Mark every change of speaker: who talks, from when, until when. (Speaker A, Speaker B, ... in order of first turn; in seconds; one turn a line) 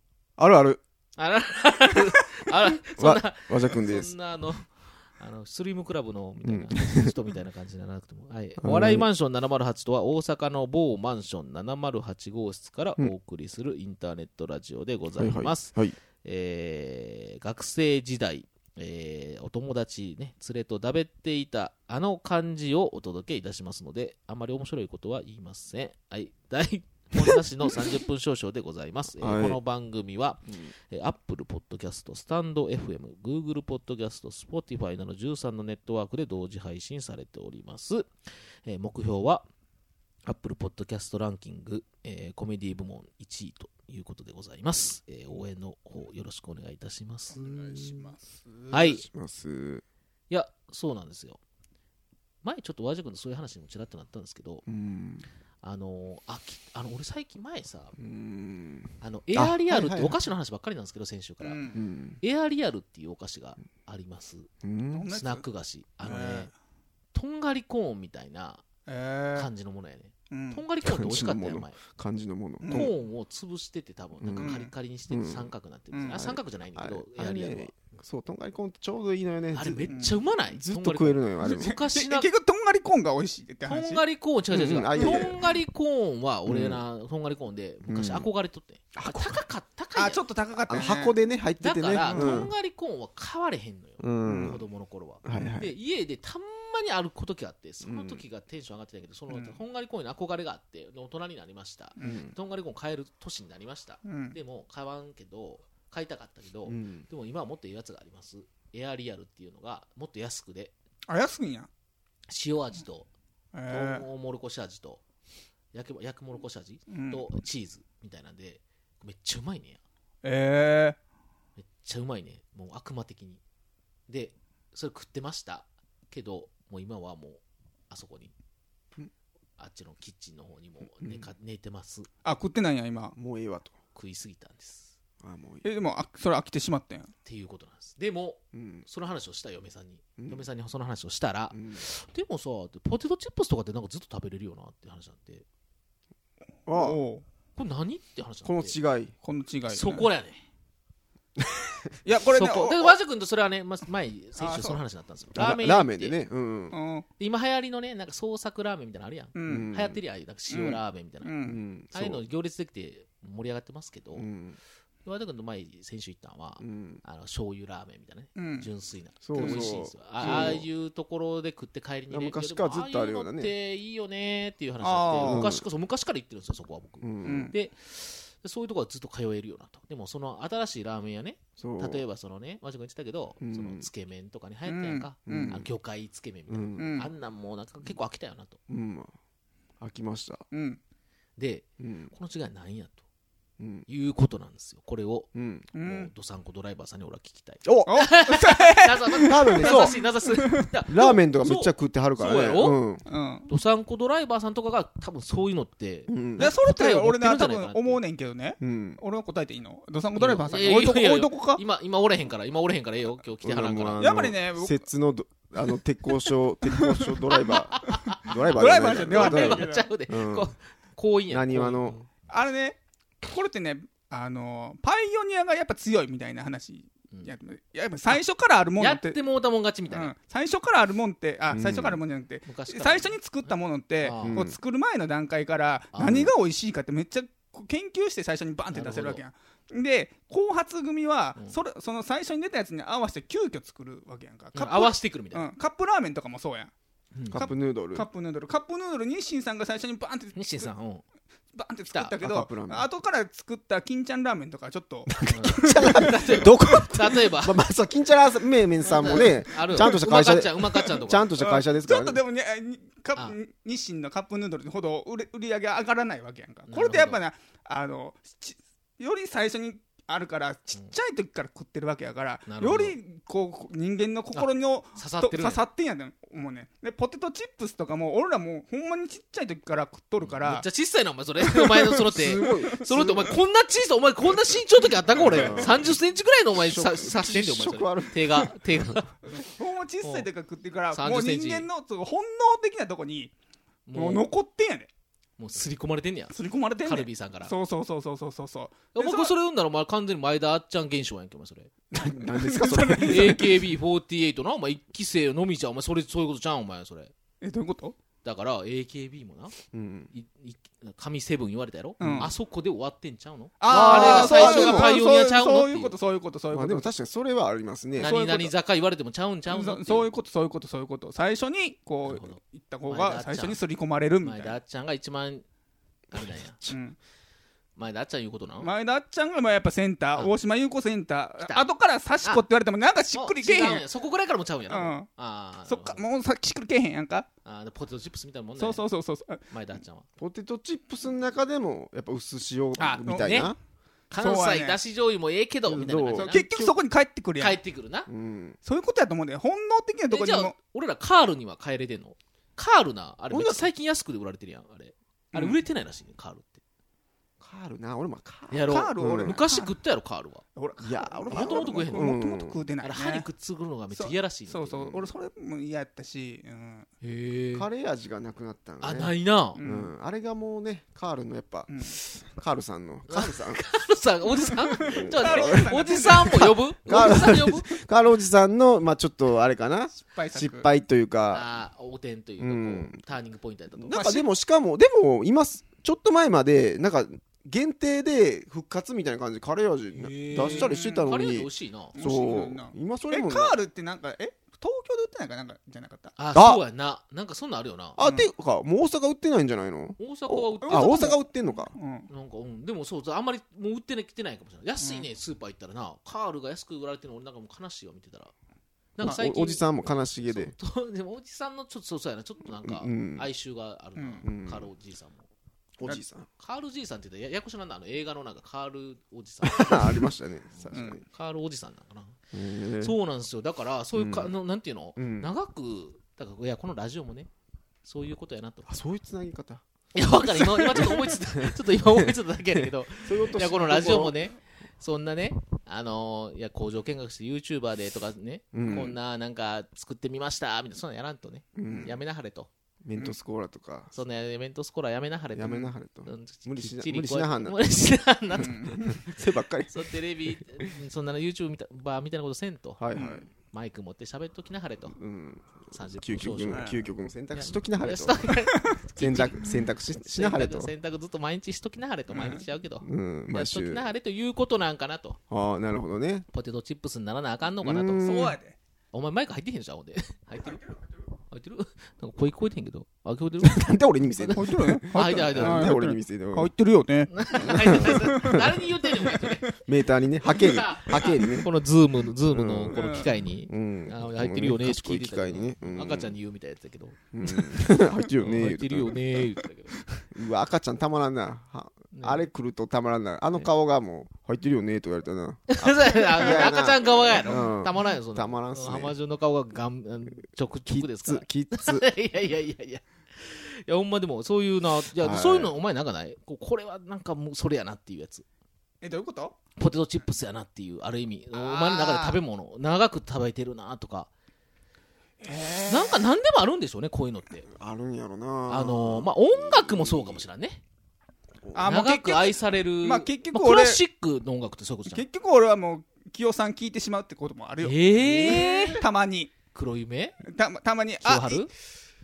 Speaker A: 0.4-0.8
Speaker B: 1.2-38.1
Speaker A: 3.0-4.1
Speaker A: 6.5-7.2
Speaker A: 8.6-9.1
Speaker A: 15.2-15.9
Speaker A: 29.2-29.6
Speaker B: 38.6-39.5
Speaker B: 40.3-48.1
Speaker C: 47.3-48.7
Speaker B: 48.7-49.0
Speaker A: 48.8-49.8
Speaker B: 50.3-51.4
Speaker B: 52.4-54.6
Speaker A: 54.7-55.2
Speaker B: 55.6-58.0
Speaker A: 58.0-60.1
Speaker B: 59.0-61.6
Speaker C: 61.4-61.8
Speaker A: 61.7-62.2
Speaker B: 62.2-64.5
Speaker A: 64.6-65.1
Speaker C: 64.9-65.5
Speaker B: 65.1-66.5
Speaker C: 66.0-66.5
Speaker B: 67.1-68.6
Speaker C: 68.9-69.5
Speaker B: 69.3-71.8
Speaker C: 70.3-70.6
Speaker A: 70.8-72.9
Speaker C: 72.6-72.9
Speaker B: 72.7-77.8
Speaker A: 74.2-75.5
Speaker C: 74.3-74.7
Speaker C: 75.9-76.2
Speaker A: 76.1-81.8
Speaker B: 79.5-82.3
Speaker C: 79.9-80.2
Speaker C: 81.4-84.0
Speaker B: 83.7-90.8
Speaker A: 84.5-85.4
Speaker C: 85.0-85.3
Speaker A: 86.5-86.8
Speaker A: 87.9-88.3
Speaker A: 88.9-89.4
Speaker C: 90.0-91.2
Speaker A: 90.7-92.5
Speaker B: 91.6-110.7
Speaker C: 92.0-92.5
Speaker A: 94.0-94.6
Speaker C: 94.3-94.6
Speaker A: 95.2-95.7
Speaker A: 97.8-98.2
Speaker C: 99.3-99.6
Speaker A: 102.0-102.3
Speaker C: 104.0-104.4
Speaker A: 106.7-107.1
Speaker C: 111.1-111.7
Speaker B: 112.3-113.1
Speaker C: 113.5-114.1
Speaker B: 113.7-115.0
Speaker B: 115.7-119.8
Speaker C: 116.9-117.3
Speaker C: 120.2-121.0
Speaker B: 121.6-123.4
Speaker B: 124.1-128.3
Speaker B: 129.6-132.1
Speaker A: 131.0-131.3
Speaker C: 132.2-133.2
Speaker A: 133.2-133.7
Speaker B: 133.9-134.9
Speaker A: 135.2-135.7
Speaker C: 135.6-137.1
Speaker B: 137.2-145.4
Speaker A: 138.5-138.9
Speaker A: 140.2-140.4
Speaker A: 141.5-141.8
Speaker A: 146.7-147.0
Speaker C: 146.7-147.2
Speaker B: 147.6-148.8
Speaker A: 148.4-149.1
Speaker C: 149.2-150.1
Speaker B: 149.7-150.4
Speaker A: 151.4-151.9
Speaker C: 152.0-153.0
Speaker B: 152.3-156.2
Speaker C: 154.4-154.8
Speaker A: 155.3-156.8
Speaker C: 156.7-157.1
Speaker B: 157.2-161.3
Speaker C: 159.3-159.7
Speaker A: 159.5-160.0
Speaker C: 160.5-161.6
Speaker A: 161.4-162.2
Speaker B: 161.9-164.3
Speaker A: 164.1-164.6
Speaker B: 165.1-188.6
Speaker A: 166.6-167.0
Speaker C: 168.4-168.7
Speaker A: 169.2-170.7
Speaker C: 169.4-170.6
Speaker A: 172.1-173.5
Speaker C: 174.8-175.5
Speaker A: 175.2-175.6
Speaker A: 177.0-177.6
Speaker C: 177.2-177.6
Speaker A: 181.6-182.1
Speaker A: 183.4-183.9
Speaker C: 184.7-185.6
Speaker A: 185.3-185.7
Speaker A: 186.5-186.9
Speaker C: 186.8-187.1
Speaker A: 188.7-189.1
Speaker A: 189.8-190.4
Speaker C: 190.5-190.8
Speaker B: 191.4-193.0
Speaker A: 191.8-192.1
Speaker A: 193.6-193.9
Speaker B: 193.9-202.8
Speaker A: 195.3-195.7
Speaker C: 195.7-196.1
Speaker A: 197.7-197.9
Speaker C: 197.9-200.7
Speaker A: 199.3-200.0
Speaker A: 200.9-203.0
Speaker C: 203.1-203.5
Speaker B: 203.5-208.0
Speaker A: 206.1-206.5
Speaker C: 206.4-211.6
Speaker A: 208.6-209.0
Speaker B: 210.2-214.1
Speaker A: 213.4-220.5
Speaker C: 214.0-214.8
Speaker C: 216.7-217.2
Speaker B: 217.3-222.1
Speaker C: 218.3-219.9
Speaker A: 221.3-222.0
Speaker C: 222.3-229.2
Speaker B: 228.8-230.1
Speaker C: 229.9-246.7
Speaker A: 231.5-232.0
Speaker B: 232.5-233.5
Speaker B: 234.0-234.4
Speaker A: 234.2-234.6
Speaker B: 235.9-236.3
Speaker A: 236.0-236.3
Speaker B: 238.7-239.2
Speaker B: 244.5-245.5
Speaker B: 247.1-247.4
Speaker C: 247.3-250.7
Speaker A: 247.3-248.1
Speaker B: 250.4-251.0
Speaker C: 251.6-256.9
Speaker A: 252.2-252.9
Speaker A: 255.1-262.2
Speaker B: 255.2-257.6
Speaker B: 258.9-261.3
Speaker C: 258.9-260.0
Speaker C: 261.4-280.7
Speaker B: 266.7-267.2
Speaker B: 272.5-272.9
Speaker B: 274.4-275.7
Speaker B: 280.2-289.2
Speaker C: 281.8-283.1
Speaker A: 282.0-283.4
Speaker C: 285.1-285.7
Speaker A: 285.1-285.9
Speaker A: 286.6-288.8
Speaker C: 289.3-293.3
Speaker B: 290.0-290.3
Speaker B: 290.9-291.7
Speaker B: 293.9-294.3
Speaker C: 293.9-294.9
Speaker B: 295.4-297.5
Speaker C: 296.3-299.3
Speaker B: 298.9-301.7
Speaker A: 301.9-303.5
Speaker C: 302.3-303.5
Speaker B: 303.0-307.1
Speaker C: 307.4-308.0
Speaker B: 308.2-309.6
Speaker A: 309.7-310.1
Speaker B: 310.1-316.0
Speaker C: 312.0-312.3
Speaker A: 312.0-312.3
Speaker C: 313.6-316.9
Speaker A: 313.7-315.0
Speaker A: 316.5-318.2
Speaker B: 318.0-320.1
Speaker C: 318.0-318.5
Speaker C: 319.5-324.6
Speaker B: 322.1-322.4
Speaker B: 322.9-323.6
Speaker B: 324.2-325.4
Speaker B: 326.1-326.6
Speaker C: 326.7-327.0
Speaker B: 327.8-328.7
Speaker C: 328.6-333.9
Speaker B: 333.1-336.0
Speaker C: 334.7-335.1
Speaker C: 335.7-337.3
Speaker B: 337.4-338.8
Speaker C: 338.6-339.4
Speaker B: 339.5-340.1
Speaker A: 340.2-343.6
Speaker B: 342.8-343.5
Speaker C: 343.1-343.5
Speaker B: 344.1-346.5
Speaker C: 344.1-344.8
Speaker A: 345.7-346.8
Speaker C: 346.1-347.6
Speaker B: 347.4-348.1
Speaker A: 348.1-348.6
Speaker C: 348.6-350.5
Speaker B: 350.1-356.6
Speaker A: 353.3-353.7
Speaker C: 355.3-355.6
Speaker A: 357.4-359.4
Speaker B: 358.5-360.4
Speaker C: 358.7-359.8
Speaker C: 360.6-363.3
Speaker A: 360.8-362.6
Speaker B: 361.3-362.1
Speaker B: 362.8-365.0
Speaker C: 363.9-366.9
Speaker B: 367.0-367.7
Speaker A: 367.6-373.6
Speaker B: 368.8-369.6
Speaker C: 369.6-369.9
Speaker C: 371.7-371.9
Speaker B: 373.1-377.8
Speaker A: 374.8-376.3
Speaker C: 374.8-376.6
Speaker A: 376.9-381.5
Speaker C: 379.9-380.7
Speaker B: 381.3-384.0
Speaker A: 382.4-383.0
Speaker A: 383.8-393.6
Speaker C: 383.9-384.3
Speaker B: 389.9-392.0
Speaker C: 390.4-391.2
Speaker C: 391.9-396.1
Speaker B: 396.2-398.0
Speaker A: 396.3-396.6
Speaker A: 398.0-401.7
Speaker C: 398.0-398.3
Speaker B: 400.0-401.2
Speaker C: 400.6-402.1
Speaker B: 402.1-408.3
Speaker C: 404.8-405.1
Speaker B: 409.0-415.3
Speaker A: 409.0-410.6
Speaker A: 412.6-413.3
Speaker C: 414.0-414.2
Speaker A: 414.2-414.7
Speaker A: 415.8-416.3
Speaker B: 416.4-420.1
Speaker A: 419.4-421.0
Speaker B: 420.6-422.2
Speaker C: 420.7-421.0
Speaker A: 422.3-423.0
Speaker B: 422.8-427.3
Speaker A: 423.9-424.3
Speaker A: 425.0-425.3
Speaker B: 427.8-428.7
Speaker A: 428.7-429.6
Speaker B: 429.9-442.5
Speaker A: 431.4-434.2
Speaker A: 438.5-439.0
Speaker A: 441.6-442.0
Speaker A: 442.8-443.9
Speaker B: 443.9-449.0
Speaker A: 445.4-447.6
Speaker C: 448.3-449.0
Speaker A: 448.4-449.9
Speaker B: 449.7-452.8
Speaker A: 452.8-453.3
Speaker C: 452.9-453.2
Speaker B: 453.5-455.0
Speaker A: 455.0-458.4
Speaker B: 455.7-456.8
Speaker C: 456.5-456.8
Speaker B: 457.3-465.2
Speaker A: 459.0-460.7
Speaker C: 462.1-462.4
Speaker A: 462.8-463.9
Speaker A: 465.3-466.3
Speaker B: 466.3-468.1
Speaker A: 467.6-468.4
Speaker C: 468.0-468.6
Speaker B: 468.9-470.6
Speaker B: 471.3-475.8
Speaker A: 473.4-476.5
Speaker C: 474.3-479.3
Speaker B: 477.1-479.6
Speaker A: 477.4-478.4
Speaker A: 479.6-481.5
Speaker B: 480.2-490.1
Speaker A: 482.3-486.1
Speaker C: 482.7-483.1
Speaker A: 487.1-489.2
Speaker A: 490.1-498.9
Speaker B: 491.9-492.3
Speaker B: 495.5-508.2
Speaker A: 500.7-501.9
Speaker A: 505.0-505.5
Speaker C: 508.8-509.4
Speaker B: 509.6-514.1
Speaker C: 511.3-512.2
Speaker C: 515.2-516.1
Speaker B: 515.7-517.5
Speaker A: 517.5-520.2
Speaker B: 518.5-520.6
Speaker A: 521.4-521.8
Speaker C: 521.5-523.8
Speaker B: 521.6-525.0
Speaker C: 524.9-529.3
Speaker B: 527.6-528.8
Speaker B: 529.5-530.2
Speaker C: 530.2-531.5
Speaker B: 531.0-531.5